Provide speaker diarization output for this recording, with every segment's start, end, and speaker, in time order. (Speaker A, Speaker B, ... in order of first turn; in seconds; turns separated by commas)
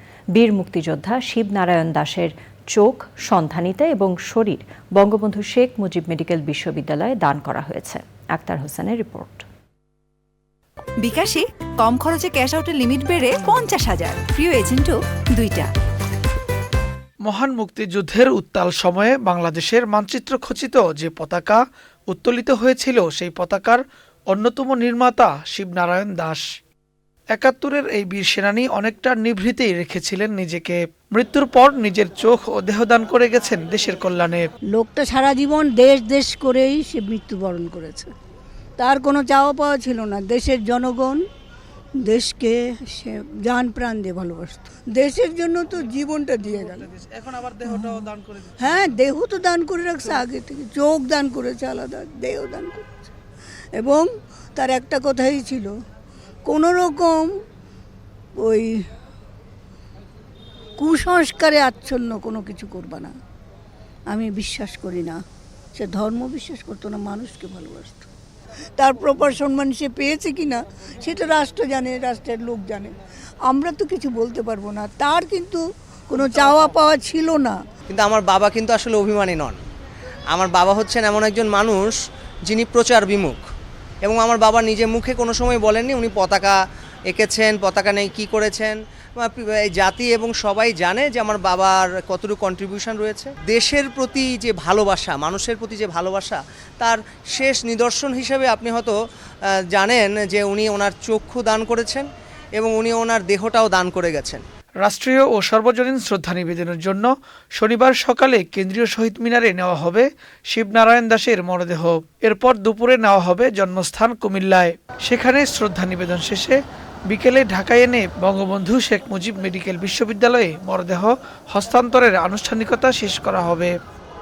Speaker A: 0.3-9.5, Speaker B: 11.0-15.7, Speaker C: 17.3-26.4, Speaker C: 27.4-34.5, Speaker D: 34.7-38.1, Speaker D: 38.8-41.2, Speaker D: 42.0-46.9, Speaker D: 47.6-53.0, Speaker D: 53.8-55.7, Speaker D: 56.5-57.3, Speaker D: 58.4-58.8, Speaker D: 60.8-63.1, Speaker D: 64.1-65.2, Speaker D: 65.8-68.1, Speaker D: 68.8-72.9, Speaker D: 73.5-77.6, Speaker E: 77.9-79.6, Speaker E: 80.3-82.0, Speaker E: 82.5-83.4, Speaker E: 84.0-86.6, Speaker E: 87.1-99.0, Speaker E: 99.7-102.1, Speaker E: 102.6-104.4, Speaker C: 104.8-123.7